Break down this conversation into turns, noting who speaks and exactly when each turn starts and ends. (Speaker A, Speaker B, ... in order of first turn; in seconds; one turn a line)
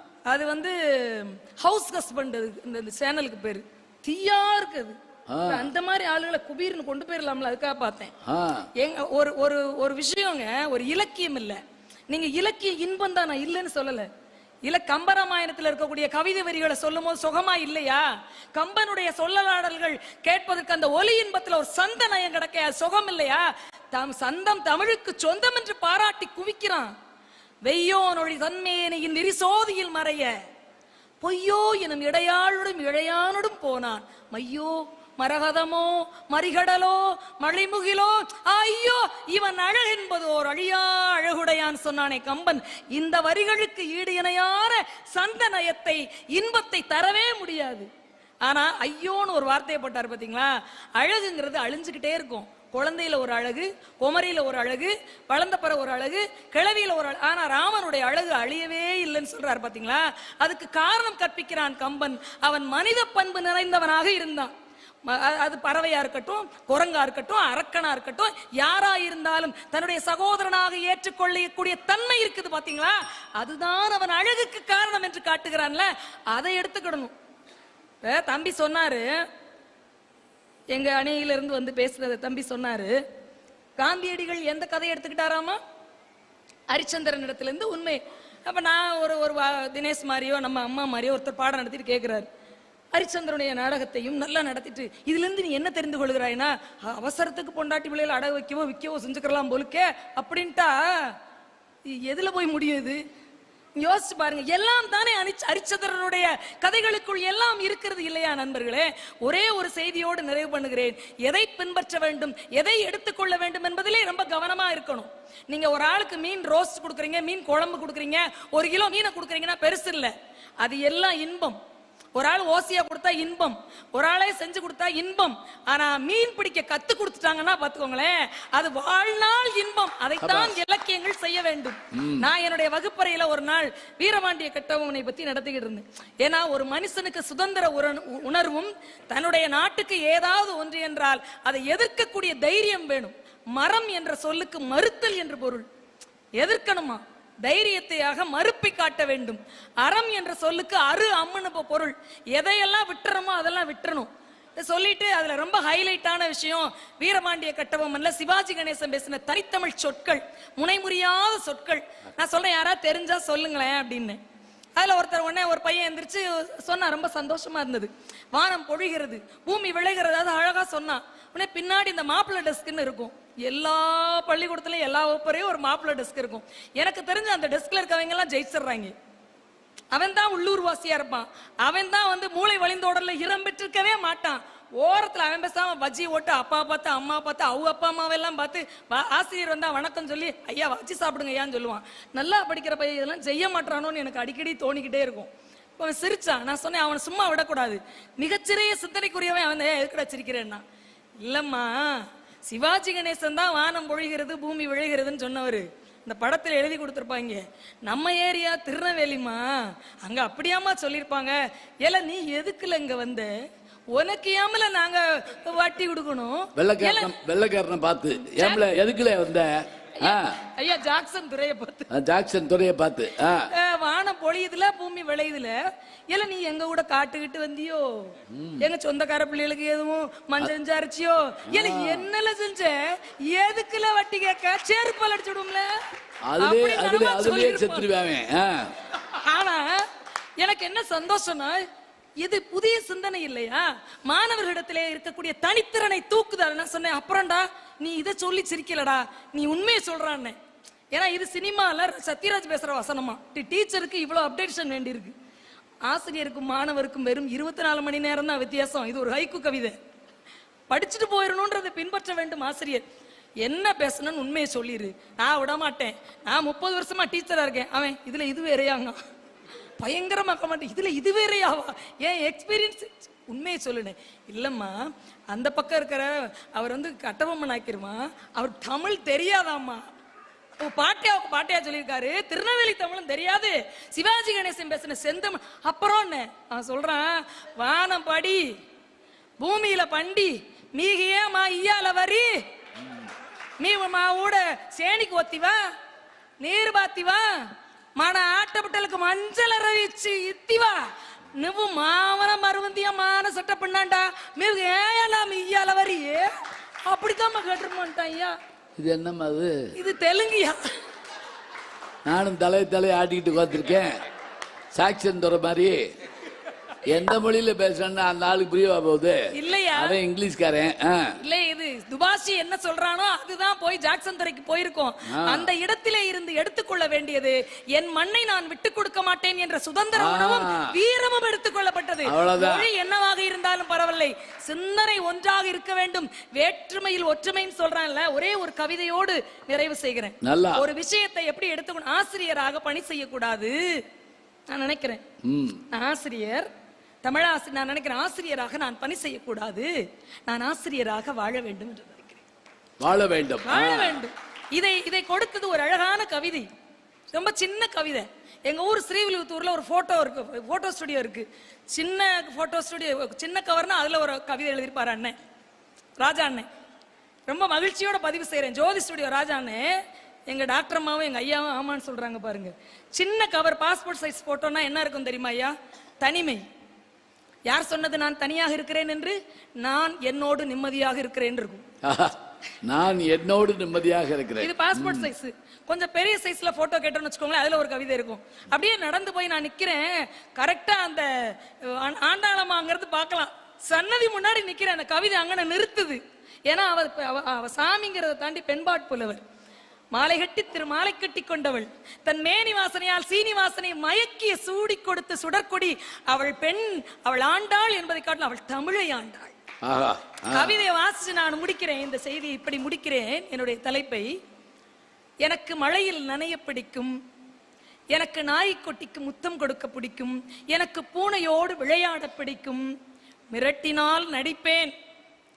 Speaker A: 0.3-8.1
Speaker B: 5.3-5.7
Speaker B: 8.2-8.7
Speaker A: 8.8-11.6
Speaker A: 12.1-14.1
Speaker A: 14.6-26.9
Speaker A: 27.6-30.3
Speaker A: 31.2-47.9
Speaker A: 48.4-64.5
Speaker A: 65.0-77.1
Speaker A: 78.0-79.2
Speaker A: 80.7-83.0
Speaker A: 83.8-85.6
Speaker A: 86.7-92.3
Speaker A: 92.9-101.2
Speaker A: 101.9-103.0
Speaker A: 103.8-121.6
Speaker A: 122.1-145.7
Speaker B: 130.2-130.6
Speaker B: 131.9-132.2
Speaker A: 146.4-164.2
Speaker A: 164.8-178.9
Speaker A: 179.9-200.6
Speaker A: 201.2-213.3
Speaker A: 213.9-217.2
Speaker B: 216.6-220.3
Speaker A: 218.3-218.6
Speaker A: 220.0-221.9
Speaker B: 221.9-223.5
Speaker A: 223.5-225.6
Speaker A: 226.1-235.8
Speaker B: 228.3-228.6
Speaker B: 231.5-232.1
Speaker B: 236.3-238.7
Speaker A: 236.4-237.9
Speaker A: 239.1-239.8
Speaker A: 240.4-241.6
Speaker A: 242.2-250.3
Speaker A: 250.9-255.1
Speaker A: 255.9-259.8
Speaker A: 260.7-262.8
Speaker A: 263.4-269.0
Speaker A: 269.8-279.8
Speaker A: 280.6-288.4
Speaker A: 289.4-292.4
Speaker A: 293.6-295.6
Speaker A: 296.4-297.4
Speaker A: 298.0-300.8
Speaker A: 301.4-306.3
Speaker A: 306.9-308.4
Speaker B: 308.8-309.7
Speaker A: 309.8-310.7
Speaker B: 312.1-314.0
Speaker B: 314.7-315.8
Speaker B: 316.9-321.1
Speaker A: 319.3-320.0
Speaker A: 321.2-343.8
Speaker B: 325.1-325.5
Speaker B: 329.9-330.7
Speaker B: 332.1-332.7
Speaker B: 340.2-340.6
Speaker A: 344.5-345.0
Speaker B: 345.2-345.6
Speaker A: 345.7-346.5
Speaker A: 347.0-349.7
Speaker A: 350.3-352.2
Speaker B: 352.8-354.0
Speaker A: 353.4-356.5
Speaker A: 357.1-365.1
Speaker A: 366.0-366.5
Speaker A: 367.3-369.7
Speaker A: 370.3-376.4
Speaker A: 377.5-381.6
Speaker B: 381.8-385.1
Speaker A: 384.4-399.2
Speaker A: 399.9-409.3
Speaker B: 409.6-410.6
Speaker A: 410.3-414.1
Speaker A: 415.2-416.9
Speaker A: 417.9-422.7
Speaker A: 423.3-424.7